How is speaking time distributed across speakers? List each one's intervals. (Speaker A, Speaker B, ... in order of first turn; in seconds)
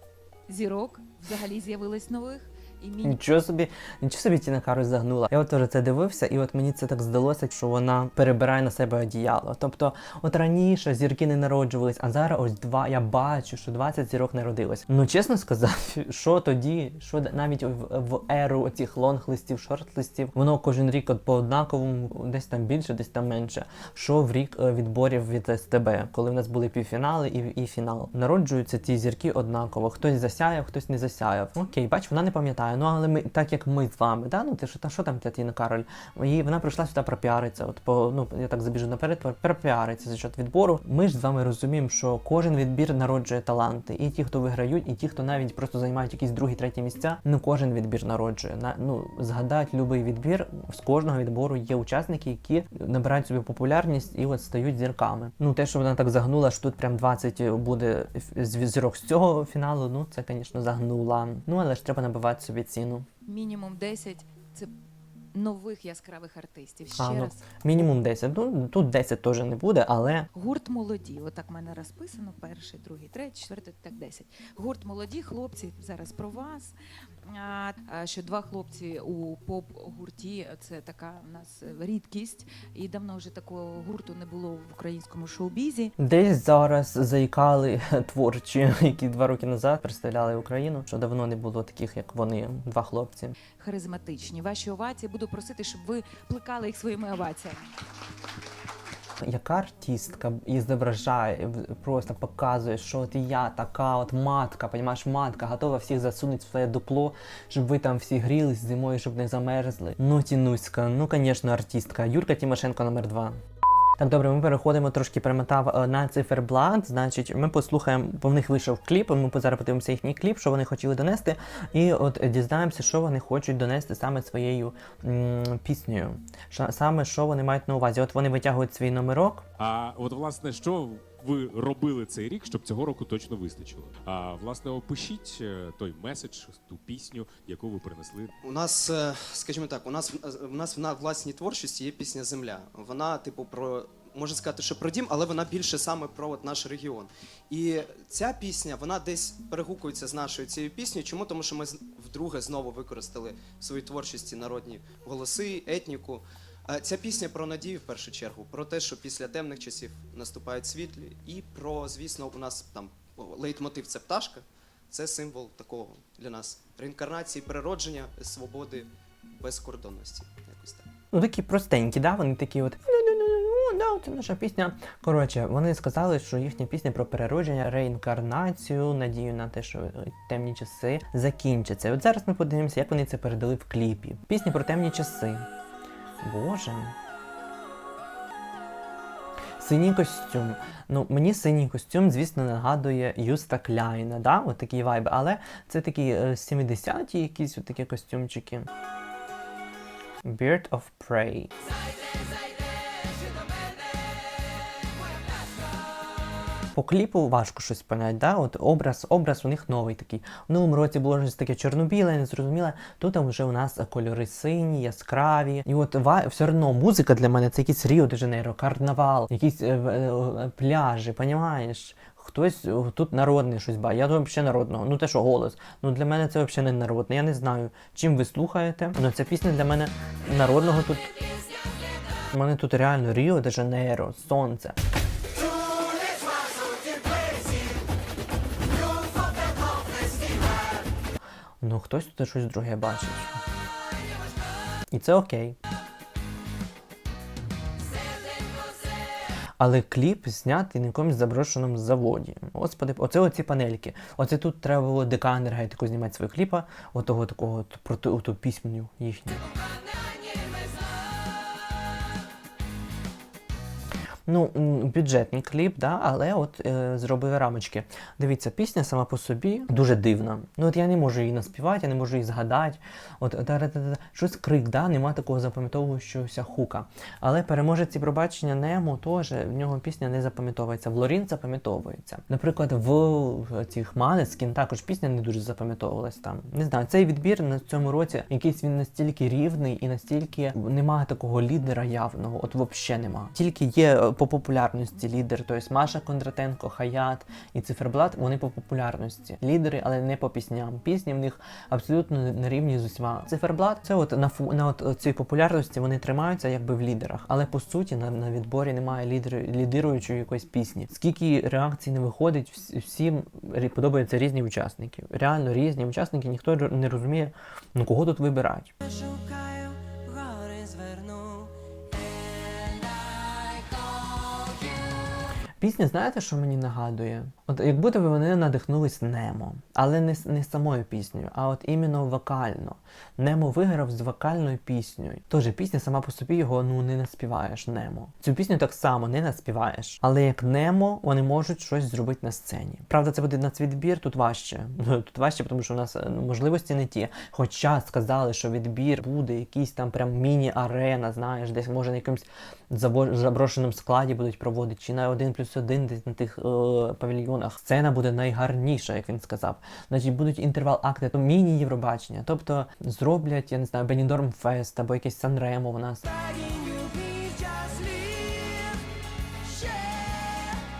Speaker A: 0.5-3.2, 63.2-64.7, 65.3-67.4, 70.3-76.7, 77.2-85.9, 93.6-97.7
Speaker B: 3.0-63.1, 67.0-70.3, 86.0-93.4, 99.2-113.4, 114.0-129.4, 171.1-185.5, 186.2-186.9, 189.6-198.7, 200.2-201.5, 206.7-231.1, 232.3-234.8, 241.6-243.4, 244.9-245.6, 249.6-259.4, 264.3-318.7, 325.6-366.1
Speaker C: 129.6-138.3
Speaker D: 138.4-170.9
Speaker E: 202.0-203.9, 205.2-205.6, 235.4-237.7, 238.8-240.7, 248.4-248.7, 260.0-260.8, 318.8-325.4, 366.0-368.9, 369.4-370.6